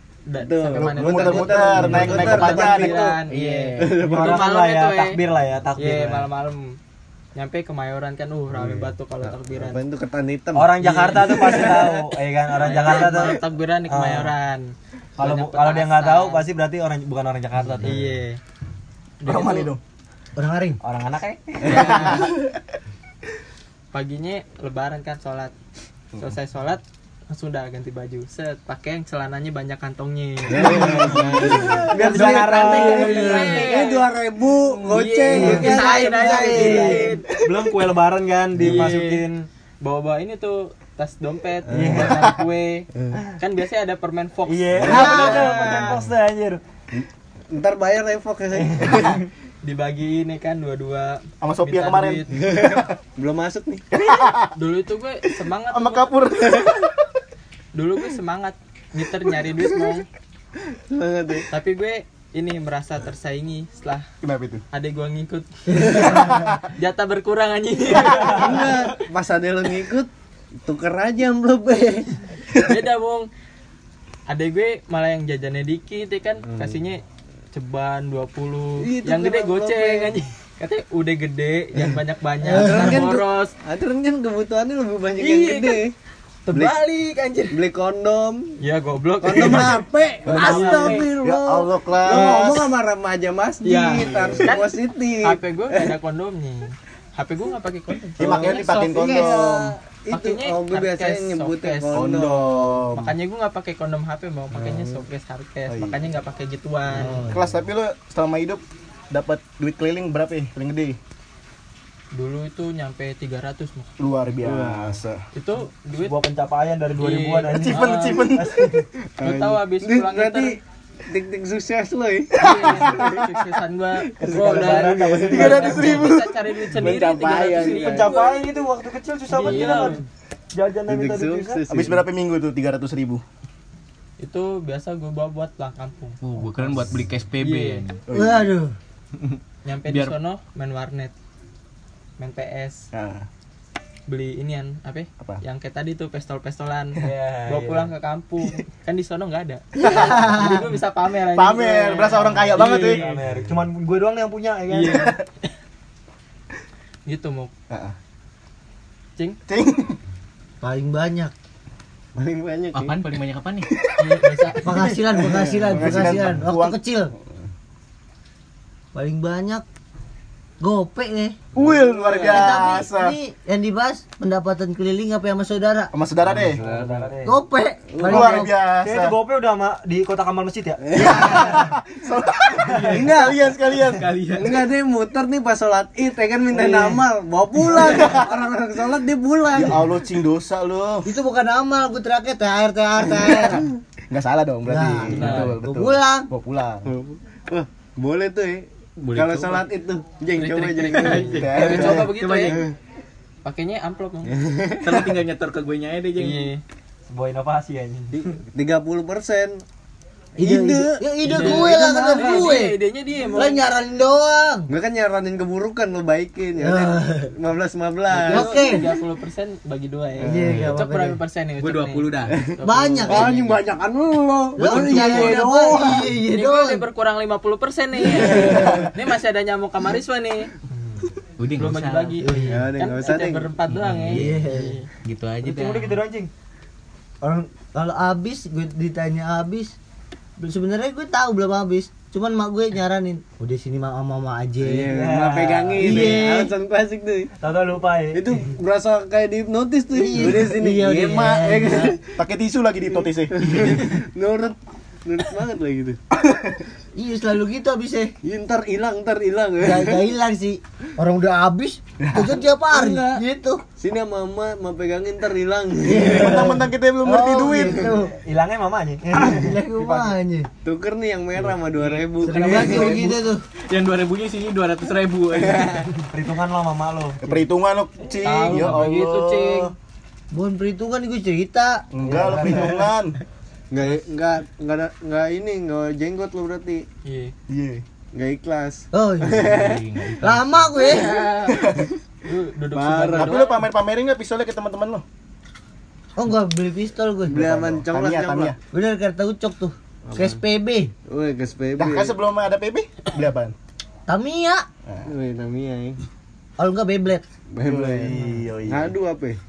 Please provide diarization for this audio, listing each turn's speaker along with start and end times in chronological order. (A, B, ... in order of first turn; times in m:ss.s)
0:00.3-0:05.2 A
0:00.4-0:04.5 B
0:00.7-0:03.0 C
0:03.4-0:03.9 D
0:04.1-0:06.3 E
0:05.8-0:06.7 A
0:07.3-0:09.8 A
0:08.6-0:11.9 B
0:10.5-0:14.3 E
0:10.8-0:12.0 A
0:12.5-0:16.5 A
0:15.2-0:18.0 E
0:17.8-0:18.4 A
0:19.2-0:19.7 A
0:19.2-0:19.8 C
0:20.4-0:20.8 F
0:20.8-0:22.3 E
0:21.7-0:22.3 A
0:21.7-0:22.4 C
0:23.9-0:25.5 A
0:26.2-0:37.3 A
0:30.5-0:37.2 B
0:31.5-0:34.0 D
0:32.0-0:33.5 E
0:35.3-0:37.1 F
0:37.3-0:39.3 E
0:38.6-0:38.9 B
0:38.6-0:45.9 A
0:41.7-0:42.3 B
0:41.7-0:42.4 E
0:44.5-0:46.6 E
0:44.8-0:46.0 B
0:44.9-0:45.7 F
0:46.9-0:49.2 B
0:48.5-0:49.2 E
0:49.6-0:52.5 A
0:51.4-0:52.8 C
0:52.3-0:53.8 B
0:53.9-0:54.5 C
0:54.6-0:56.2 A
0:55.7-0:57.0 C
0:57.7-1:00.0 A
1:00.9-1:01.5 B
1:01.5-1:04.1 A
1:04.2-1:04.6 C
1:04.7-1:08.8 A
1:05.9-1:06.6 C
1:08.2-1:10.1 B
1:10.6-1:12.2 B
1:12.6-1:13.3 A
1:14.3-1:23.5 A
1:16.4-1:16.8 B
1:18.8-1:20.1 B
1:22.5-1:25.9 B
1:25.3-1:25.7 A
1:26.5-1:26.8 A
1:26.5-1:26.8 C
1:26.6-1:27.0 E
1:27.5-1:28.6 B
1:28.6-1:31.2 A
1:29.2-1:35.9 B
1:30.3-1:32.7 C
1:32.2-1:32.5 A
1:33.6-1:39.4 A
1:34.1-1:34.4 C
1:38.2-1:39.8 C
1:38.2-1:42.9 B
1:40.1-1:42.2 A
1:41.9-1:43.1 C
1:42.9-1:47.2 A
1:44.5-1:45.0 B
1:45.7-1:46.0 C
1:47.0-1:47.4 F
1:47.3-1:51.0 C
1:52.1-1:53.9 A
1:54.0-1:55.2 C
1:54.4-1:55.0 B
1:55.3-1:56.2 A
1:56.1-1:58.8 E
1:56.9-1:58.3 A
1:57.5-1:58.9 C
1:59.2-2:03.3 B
1:59.2-2:00.6 A
2:02.4-2:08.5 A
2:02.4-2:03.2 C
2:04.2-2:06.0 E
2:04.2-2:06.2 B
2:05.3-2:07.4 C
2:06.8-2:08.2 B
2:07.6-2:10.0 E
2:09.3-2:10.0 A
2:09.4-2:09.8 B
2:10.5-2:11.6 E
2:10.9-2:12.0 B
2:11.7-2:13.2 C
2:14.2-2:16.2 A
2:16.2-2:18.0 D
2:17.4-2:17.8 A
2:18.1-2:18.5 C
2:18.1-2:18.7 F
2:19.2-2:20.1 D
2:19.6-2:21.1 A
2:22.2-2:22.8 A
2:22.9-2:23.2 C
2:24.1-2:33.2 A
2:27.0-2:27.9 E
2:29.8-2:30.3 C
2:29.8-2:30.6 F
2:31.3-2:33.0 C
2:32.6-2:35.1 E
2:34.7-2:35.2 A
2:37.0-2:37.5 A
2:37.7-2:37.9 C
2:39.5-2:40.0 C
2:40.6-2:41.3 F
2:42.1-2:43.0 B
2:42.7-2:43.7 D
2:44.0-2:45.0 A
2:44.6-2:47.1 F
2:44.7-2:46.2 B
2:45.7-2:47.2 C
2:48.9-2:49.6 F
2:50.6-2:51.4 F
2:51.5-2:53.2 C
2:51.6-2:52.4 B
2:52.2-2:55.9 F
2:55.9-2:56.6 C
2:56.3-2:57.4 E
2:56.4-2:57.1 B
2:57.2-2:58.5 F
2:57.9-2:58.4 B
2:58.0-2:59.2 C
2:58.8-3:01.0 E
3:00.9-3:01.3 B
3:00.9-3:04.1 C
3:02.6-3:04.7 D
3:02.9-3:03.4 B
3:04.3-3:09.9 B
3:07.8-3:08.3 C
3:09.5-3:11.1 C
3:11.0-3:13.7 F
3:13.1-3:13.6 B
3:14.1-3:16.9 C
3:14.7-3:16.3 F
3:15.1-3:15.6 A
3:16.8-3:21.8 B
3:19.0-3:19.7 D
3:20.4-3:22.6 A
3:20.8-3:22.6 D
3:21.3-3:22.1 C
3:22.4-3:22.7 B
3:23.4-3:24.4 A
3:24.3-3:25.1 B
3:24.8-3:26.5 D
3:26.2-3:26.6 A
3:27.1-3:28.2 E
3:28.1-3:29.6 B
3:30.4-3:32.6 B
3:30.4-3:32.8 F
3:31.2-3:33.6 A
3:33.3-3:34.7 F
3:34.7-3:38.5 B
3:36.6-3:37.3 F
3:38.1-3:43.6 A
3:38.3-3:38.9 F
3:40.2-3:40.7 B
3:40.2-3:41.2 F
3:41.6-3:42.3 D
3:42.4-3:46.2 B
3:42.6-3:43.3 F
3:44.6-3:46.8 F
3:44.7-3:45.4 A
3:45.9-3:50.5 A
3:48.1-3:48.9 B
3:48.4-3:48.9 C
3:51.4-3:52.2 D
3:51.6-3:54.9 A
3:52.2-3:52.6 F
3:52.4-3:53.5 B
3:53.7-3:54.3 D
3:54.1-3:54.8 F
3:55.0-3:56.0 D
3:55.4-3:56.3 E
3:57.2-3:59.8 F
4:00.4-4:04.9 F
4:04.6-4:07.3 B
4:04.8-4:06.2 E
4:05.8-4:06.5 F
4:07.4-4:08.3 E
4:08.1-4:12.2 B
4:09.9-4:12.0 F
4:12.2-4:13.9 C
4:13.3-4:16.0 B
4:16.1-4:16.6 C
4:17.0-4:18.1 F
4:18.2-4:20.0 B
4:19.6-4:23.6 F
4:22.0-4:22.4 C
4:22.7-4:23.2 D
4:23.8-4:26.5 B
4:25.9-4:28.1 F
4:26.0-4:27.9 C
4:28.1-4:29.5 E
4:29.2-4:30.5 F
4:29.8-4:30.1 A
4:30.6-4:33.1 B
4:31.8-4:33.2 D
4:32.2-4:33.4 F
4:33.7-4:36.0 D
4:35.4-4:35.8 B
4:36.1-4:37.4 E
4:37.2-4:39.7 C
4:38.2-4:39.7 A
4:40.3-4:42.9 F
4:41.9-4:43.2 C
4:43.7-4:46.8 B
4:47.0-4:47.3 A
4:47.5-4:47.8 C
4:48.1-4:49.8 B
4:48.9-4:49.6 F
4:49.4-4:50.8 D
4:50.2-4:51.2 F
4:50.9-4:51.6 B
4:51.4-4:51.9 C
4:52.2-4:53.7 A
4:52.7-4:53.3 B
4:53.1-4:55.0 C
4:56.2-4:57.6 F
4:57.3-4:58.5 B
4:57.4-4:58.6 C
4:58.7-5:00.9 F
5:00.1-5:00.4 B
5:01.1-5:02.1 B
5:01.8-5:03.5 C
5:04.1-5:04.6 F
5:05.0-5:06.0 B
5:06.6-5:07.2 F
5:07.5-5:09.4 B
5:07.6-5:08.9 C